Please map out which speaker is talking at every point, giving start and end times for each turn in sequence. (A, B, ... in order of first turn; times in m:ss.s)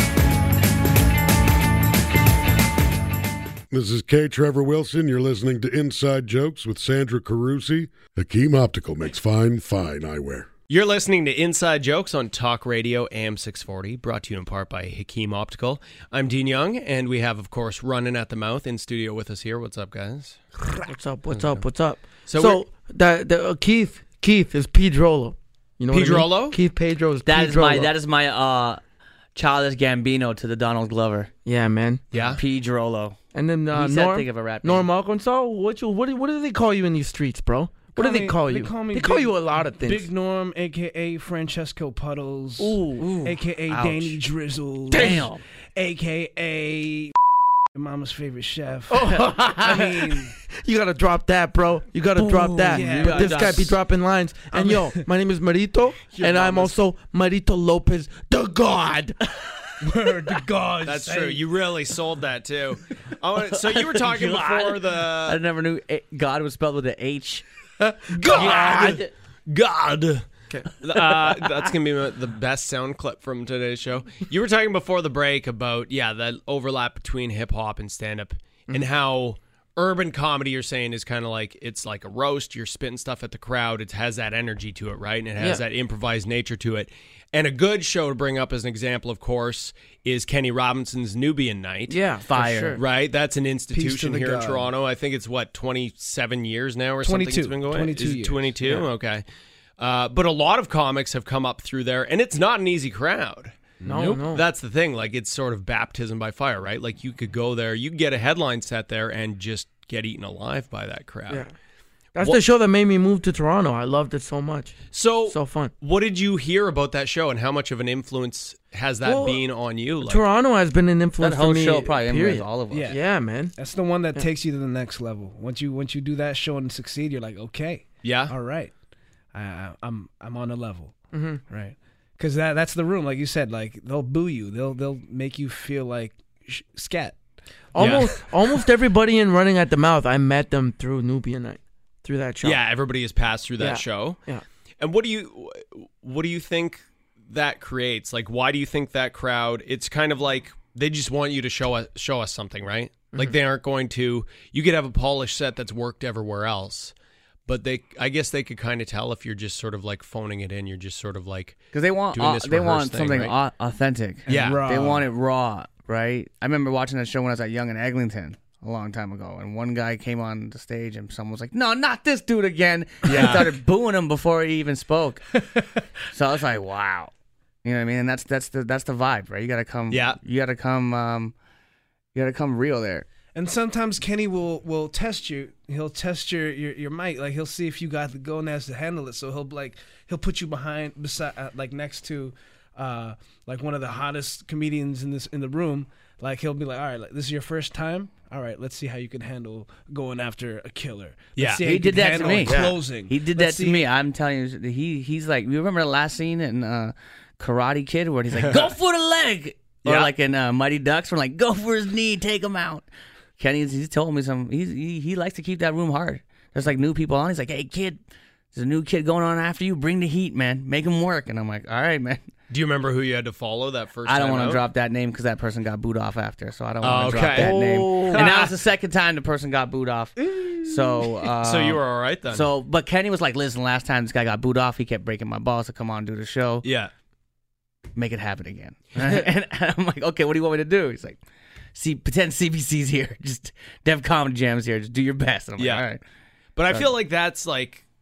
0:03.7-0:10.5 A
0:10.7-0:20.4 B
0:20.7-0:27.9 C
0:21.3-0:21.6 B
0:22.3-0:22.6 B
0:25.9-0:26.6 B
0:27.3-0:28.8 D
0:29.4-0:31.3 D
0:31.4-0:32.0 C
0:32.1-0:32.4 B
0:32.2-0:33.2 D
0:33.3-0:40.1 C
0:33.7-0:34.9 D
0:38.0-0:47.2 E
0:42.6-0:44.2 D
0:44.9-0:45.3 C
0:44.9-0:45.4 D
0:47.7-0:50.3 E
0:48.9-0:59.2 C
0:52.2-0:53.8 D
0:52.7-0:53.6 E
0:54.5-0:55.0 E
0:59.8-1:01.4 E
1:00.8-1:05.4 B
1:03.5-1:07.4 D
1:07.8-1:09.0 C
1:08.2-1:09.1 D
1:08.3-1:08.8 B
1:09.5-1:10.3 B
1:10.8-1:32.0 B
1:31.9-1:32.8 C
1:32.2-1:32.8 D
1:32.8-1:39.2 B
1:33.7-1:34.7 E
1:37.0-1:38.8 E
1:39.8-1:51.5 B
1:43.8-1:44.2 E
1:43.8-1:44.5 C
1:52.2-1:55.7 C
1:54.9-2:00.2 B
1:59.0-1:59.4 C
2:00.0-2:03.6 C
2:01.2-2:03.0 D
2:02.7-2:03.0 E
2:03.6-2:08.7 E
2:08.0-2:08.3 B
2:09.3-2:17.2 E
2:11.1-2:11.4 C
2:17.7-2:22.6 C
2:17.8-2:18.1 B
2:22.4-2:24.2 B
2:23.6-2:24.4 C
2:24.8-2:36.9 B
2:37.5-2:43.3 B
2:41.7-2:55.2 D
2:44.3-2:45.1 E
2:44.3-2:44.7 B
2:53.0-2:53.5 B
2:56.1-2:57.1 D
2:57.6-3:01.3 D
2:59.9-3:00.2 B
3:02.2-3:03.1 D
3:03.3-3:23.9 E
3:21.4-3:22.8 B
3:21.6-3:32.9 D
3:28.4-3:28.7 B
3:29.8-3:30.1 B
3:33.4-3:38.0 D
3:38.5-3:42.3 D
3:42.5-3:44.6 B
3:44.1-3:56.7 D
3:46.8-3:48.5 B
3:47.4-3:48.2 C
3:50.3-3:50.6 E
3:51.4-3:52.4 B
3:56.6-3:56.9 B
3:58.0-4:01.2 D
4:01.8-4:06.0 D
4:05.6-4:05.8 B
4:06.6-4:07.8 B